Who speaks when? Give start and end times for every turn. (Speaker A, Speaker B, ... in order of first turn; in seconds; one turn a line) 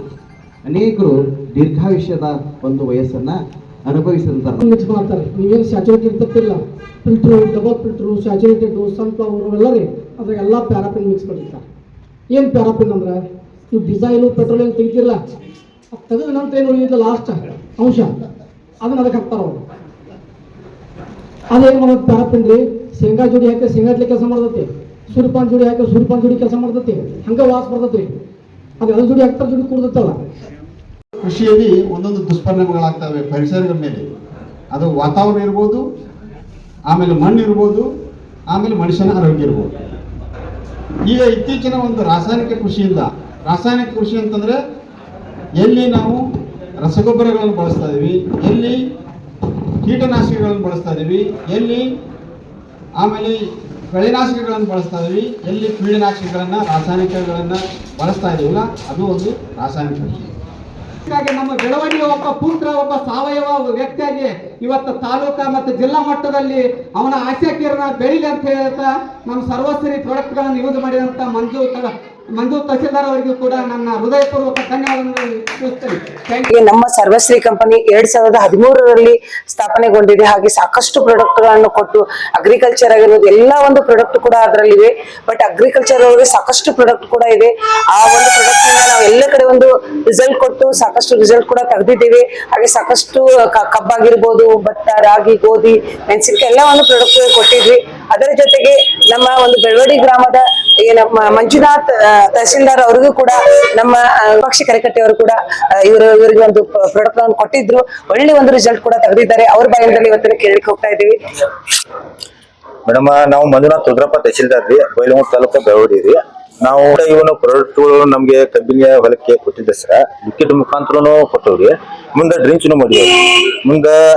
Speaker A: 0.6-4.6
Speaker B: 4.6-11.6
Speaker B: 12.3-13.2
Speaker B: 13.7-15.2
Speaker B: 15.9-18.1
Speaker B: 18.8-19.6
Speaker B: 21.5-28.1
Speaker B: 28.8-30.2
Speaker C: 31.2-34.0
Speaker C: 34.7-35.8
Speaker C: 36.9-37.9
Speaker C: 38.5-39.7
Speaker C: 41.1-44.6
Speaker C: 45.6-46.2
Speaker C: 46.8-48.8
Speaker C: 49.8-51.8
Speaker C: 53.0-53.4
Speaker C: 53.9-60.3
Speaker D: 61.1-76.5
Speaker E: 76.5-111.2
Speaker F: 112.9-123.9